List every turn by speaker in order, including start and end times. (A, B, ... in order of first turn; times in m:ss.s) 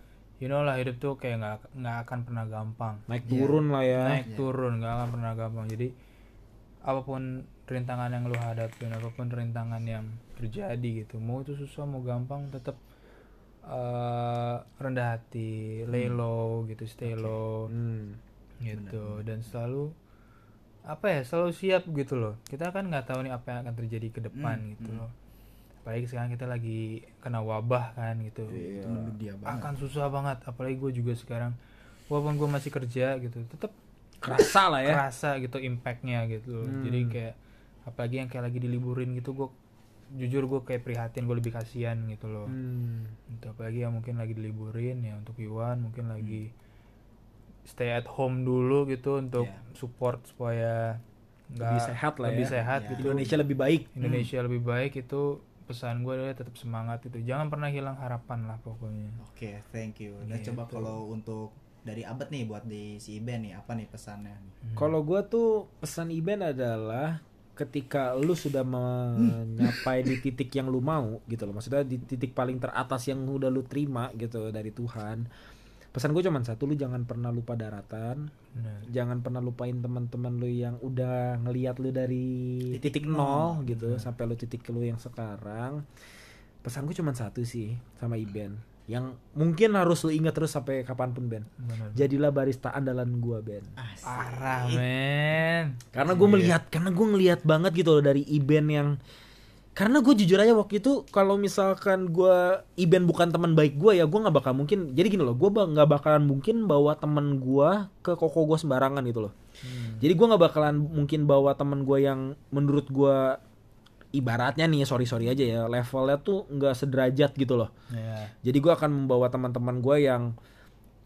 0:00.4-0:03.0 A
0:03.1-0:04.2 B
0:03.3-0:03.6 C
0:04.0-0:05.9 A
0:06.9-0:12.8 A
0:13.7-0:17.7 A
0:15.9-0:16.2 C
0:17.1-0:17.4 C
0:17.7-0:18.2 B
0:18.6-0:19.9 A
0:18.7-0:19.2 C
0:20.9-0:25.1 A
0:24.3-0:25.0 C
0:25.8-0:28.6 A
0:28.5-0:29.2 B
0:28.7-0:29.7 C
0:29.5-0:31.6 A
0:32.1-0:33.7 A
0:34.2-0:35.0 B
0:34.4-0:39.5 A
0:36.6-0:37.2 B
0:40.1-0:42.6 A
0:42.5-0:43.2 B
0:43.3-0:46.5 A
0:47.7-0:51.0 A
0:49.4-0:49.6 C
0:51.5-0:53.4 A
0:51.6-0:53.9 B
0:52.4-0:53.4 C
0:54.0-0:59.2 A
0:54.0-0:54.3 C
0:59.2-1:04.6 C
1:00.2-1:00.9 A
1:04.6-1:04.9 A
1:04.8-1:15.3 B
1:15.9-1:18.3 B
1:18.5-1:18.9 A
1:18.9-1:25.8 B
1:22.7-1:23.8 C
1:23.7-1:24.0 A
1:26.6-1:33.8 B
1:31.6-1:32.1 A
1:33.8-1:34.8 C
1:34.0-1:35.8 A
1:35.9-1:39.0 B
1:36.0-1:36.6 C
1:39.8-1:49.3 B
1:49.6-1:50.0 A
1:50.0-1:53.4 B
1:54.1-1:57.7 B
1:57.9-1:58.3 A
1:58.4-2:00.3 B